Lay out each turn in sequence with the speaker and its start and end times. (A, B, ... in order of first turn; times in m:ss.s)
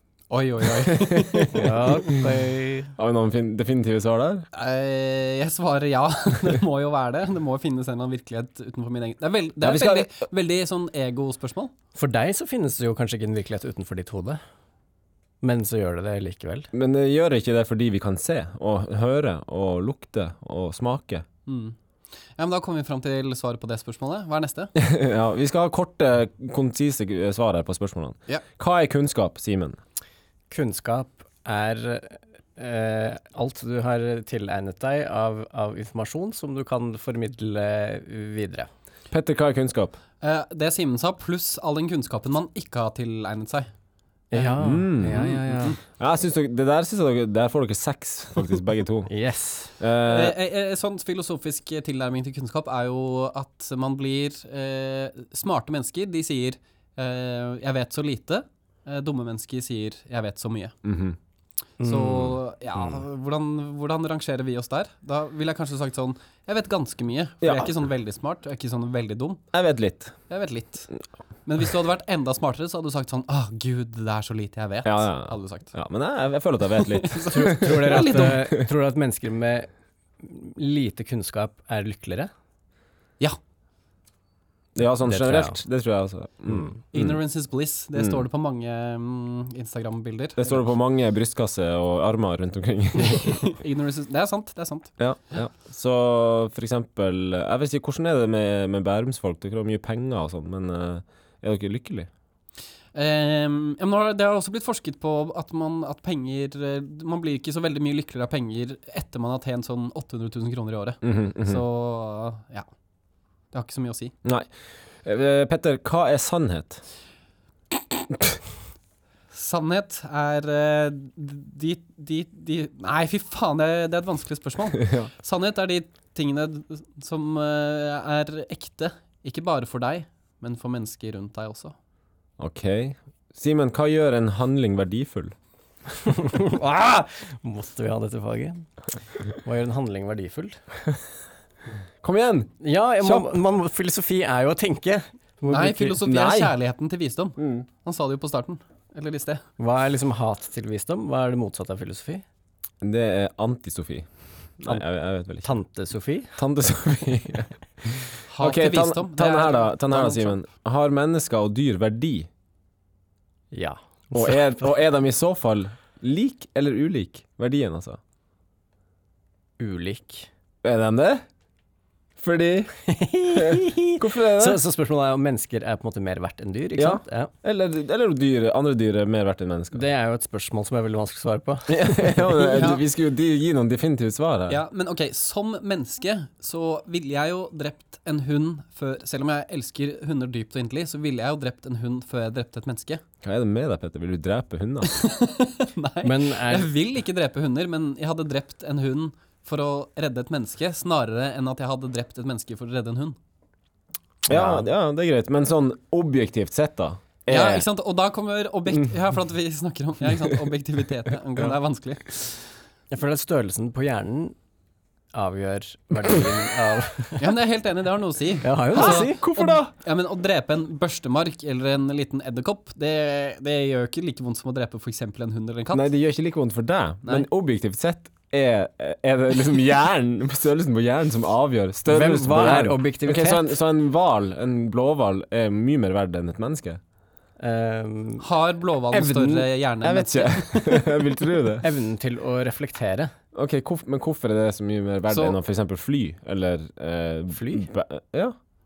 0:00.3-0:01.8 A
0:00.6-0:01.8 B
0:01.5-0:02.9 C
0:03.0-0:04.5 B
0:04.5-0:11.7 A
0:09.6-0:10.1 B
0:11.9-0:14.4 C
0:15.4-0:16.7 C
0:16.7-0:21.2 B
0:21.4-0:21.8 A
0:22.4-0:24.7 A
0:24.7-0:29.8 B
0:30.5-0:38.7 C
0:39.1-0:40.0 B
0:40.2-0:43.7 A
0:44.3-0:45.8 C
0:44.6-0:45.4 B
0:45.1-0:45.8 A
0:45.9-0:49.1 B
0:49.1-0:49.7 C
0:49.8-0:50.4 B
0:50.1-1:00.8 A
1:00.8-1:01.2 B
1:01.8-1:02.3 C
1:01.8-1:09.4 A
1:07.4-1:07.7 B
1:09.5-1:10.1 B
1:10.3-1:10.9 A
1:11.4-1:15.7 A
1:14.8-1:18.4 B
1:16.8-1:18.4 A
1:17.3-1:19.7 C
1:20.2-1:22.3 C
1:24.7-1:27.2 B
1:25.0-1:25.6 C
1:26.9-1:30.6 A
1:28.0-1:28.2 B
1:30.4-1:33.5 B
1:33.0-1:34.9 A
1:35.0-1:42.1 B
1:42.9-1:52.7 A
1:51.0-1:51.6 B
1:53.5-1:54.1 A
1:55.0-1:56.8 B
1:59.3-2:11.7 A
2:04.8-2:05.1 B
2:12.4-2:15.4 B
2:16.0-2:18.6 C
2:19.4-2:20.7 C
2:22.0-2:23.4 B
2:22.6-2:26.0 C
2:25.5-2:29.4 A
2:26.0-2:26.5 B
2:27.4-2:27.7 B
2:29.6-2:32.2 C
2:32.8-2:34.1 B
2:34.6-2:35.5 B
2:35.4-2:36.4 C
2:36.4-2:42.3 B
2:38.3-2:40.4 A
2:43.5-2:44.5 C
2:44.1-2:48.0 B
2:49.6-2:50.3 C
2:50.6-2:51.2 B
2:52.2-2:52.7 B
2:52.8-2:57.3 C
2:53.3-2:54.6 B
2:56.8-2:59.8 B
2:59.7-3:02.8 C
3:01.7-3:04.6 B
3:02.5-3:02.8 A
3:04.5-3:13.0 A
3:13.2-3:14.9 B
3:14.9-3:23.2 A
3:16.0-3:16.7 C
3:24.3-3:24.6 C
3:24.3-3:27.6 B
3:27.3-3:32.5 A
3:32.9-3:34.4 C
3:35.1-3:37.3 C
3:37.2-3:45.8 A
3:38.4-3:39.2 C
3:38.7-3:39.7 B
3:45.7-3:56.8 B
3:51.9-3:53.5 C
3:57.4-3:58.3 C
3:58.2-4:01.0 A
3:58.9-3:59.5 C
3:59.8-4:01.6 B
4:01.6-4:03.1 C
4:03.3-4:08.4 B
4:05.1-4:05.4 A
4:07.3-4:07.7 C